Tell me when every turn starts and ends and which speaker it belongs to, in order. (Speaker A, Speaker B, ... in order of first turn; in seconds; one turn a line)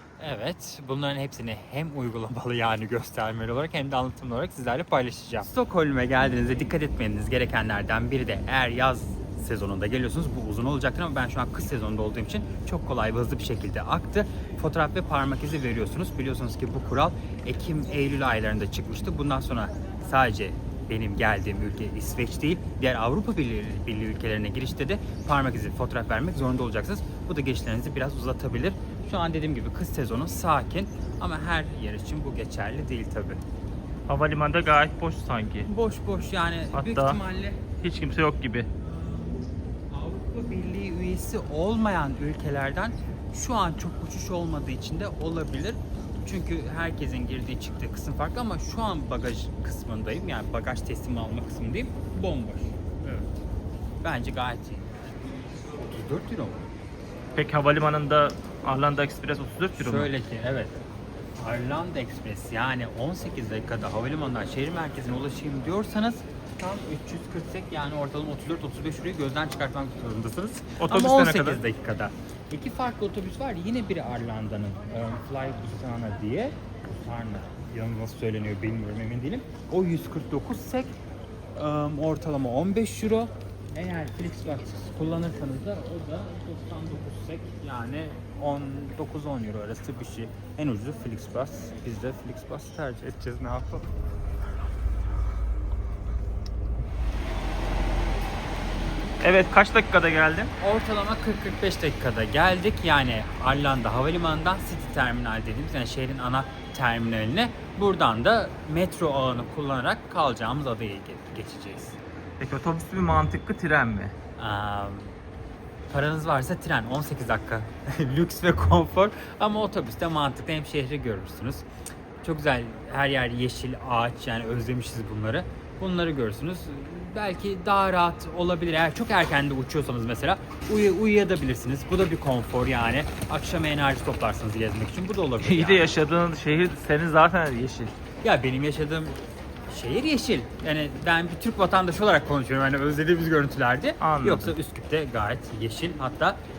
Speaker A: 0.2-33.4
Speaker B: 34.1-35.7
Speaker A: 35.7-37.6
Speaker B: 36.7-37.2
Speaker B: 37.8-38.7
Speaker A: 39.9-53.3
Speaker A: 54.0-55.2
Speaker A: 55.8-56.7
Speaker B: 57.4-60.1
Speaker A: 59.8-60.8
Speaker A: 61.4-80.9
Speaker B: 70.8-71.6
Speaker A: 81.6-93.9
Speaker B: 99.2-100.5
Speaker A: 100.6-112.0
Speaker B: 112.4-114.1
Speaker A: 114.4-115.2
Speaker A: 115.9-121.7
Speaker A: 122.2-135.9
Speaker B: 135.4-137.9
Speaker A: 138.2-139.2
Speaker A: 139.7-146.4
Speaker B: 144.0-144.5